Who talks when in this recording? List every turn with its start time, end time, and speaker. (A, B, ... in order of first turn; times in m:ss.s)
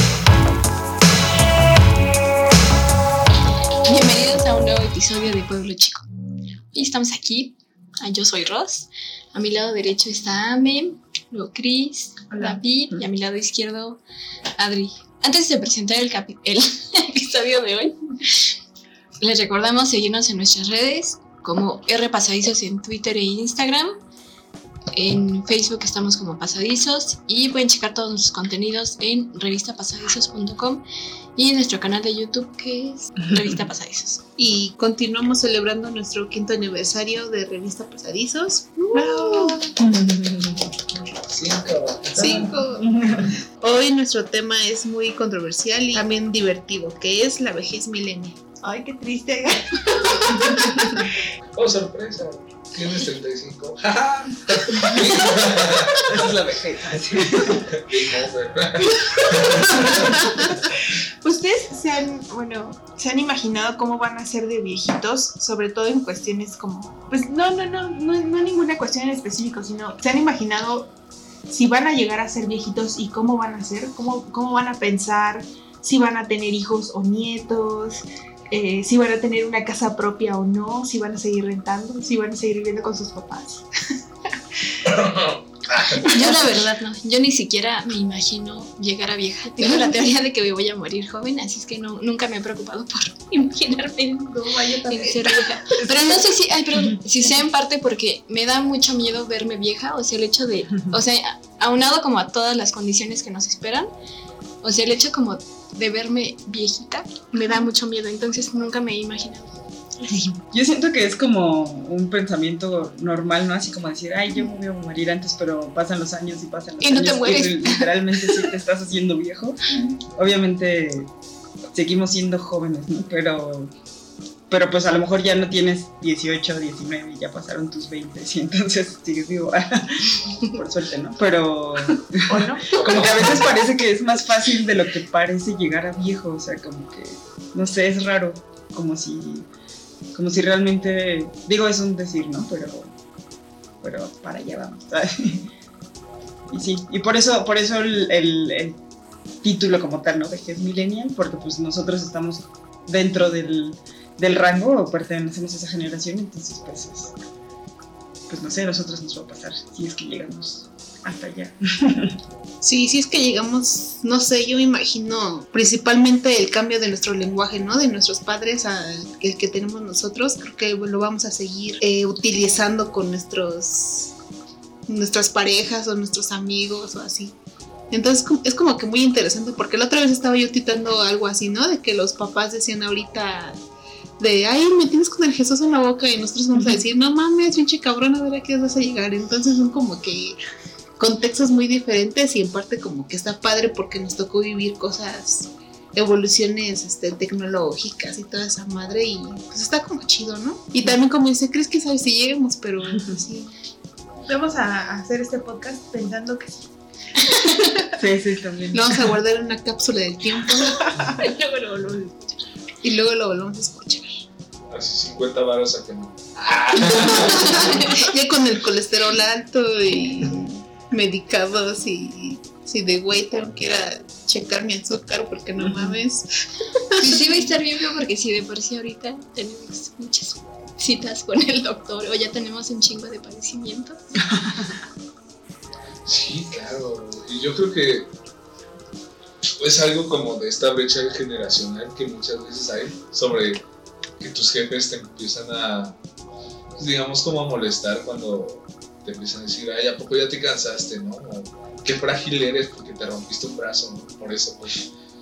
0:03.8-0:06.0 A
0:06.7-0:14.0 A
0:14.6-0:18.5 A
0:19.2-0:24.0 A
0:25.0-0:30.8 A
0:31.4-0:34.2 A
0:34.4-0:39.7 B
0:39.0-0:39.6 C
0:39.8-0:40.7 D
0:41.2-0:42.5 E
0:42.2-0:43.4 D
0:42.2-0:43.0 B
0:43.6-0:48.5 B
0:48.6-0:51.1 C
0:51.5-0:56.3 E
0:56.0-0:57.8 D
0:57.2-1:00.5 E
0:59.7-1:00.6 C
1:01.2-1:10.9 C
1:11.5-1:23.7 C
1:24.8-1:26.4 E
1:26.0-1:43.9 A
1:34.3-1:36.1 B
1:44.6-1:49.6 A
1:50.5-2:01.1 D
1:56.8-1:58.3 A
2:01.7-2:03.7 D
2:04.5-2:19.5 D
2:12.3-2:12.6 A
2:12.7-2:13.5 E
2:20.1-2:22.9 D
2:23.8-2:25.5 D
2:26.5-2:28.8 D
2:29.4-2:37.2 D
2:38.3-2:42.2 D
2:42.6-2:54.1 B
2:54.9-2:57.4 B
2:57.9-3:03.6 B
3:04.2-3:10.4 B
3:11.0-3:23.5 B
3:24.2-3:26.7 C
3:27.3-3:28.0 C
3:28.0-3:29.0 D
3:28.7-3:31.4 B
3:31.2-3:32.3 A
3:32.8-3:34.2 B
3:34.7-3:38.0 E
3:37.0-3:47.5 B
3:37.3-3:37.8 A
3:45.6-3:46.0 D
3:47.0-3:54.0 A
3:54.2-3:54.8 D
3:56.1-3:58.1 E
3:59.6-4:03.6 E
4:04.2-4:06.0 E
4:06.8-4:14.9 E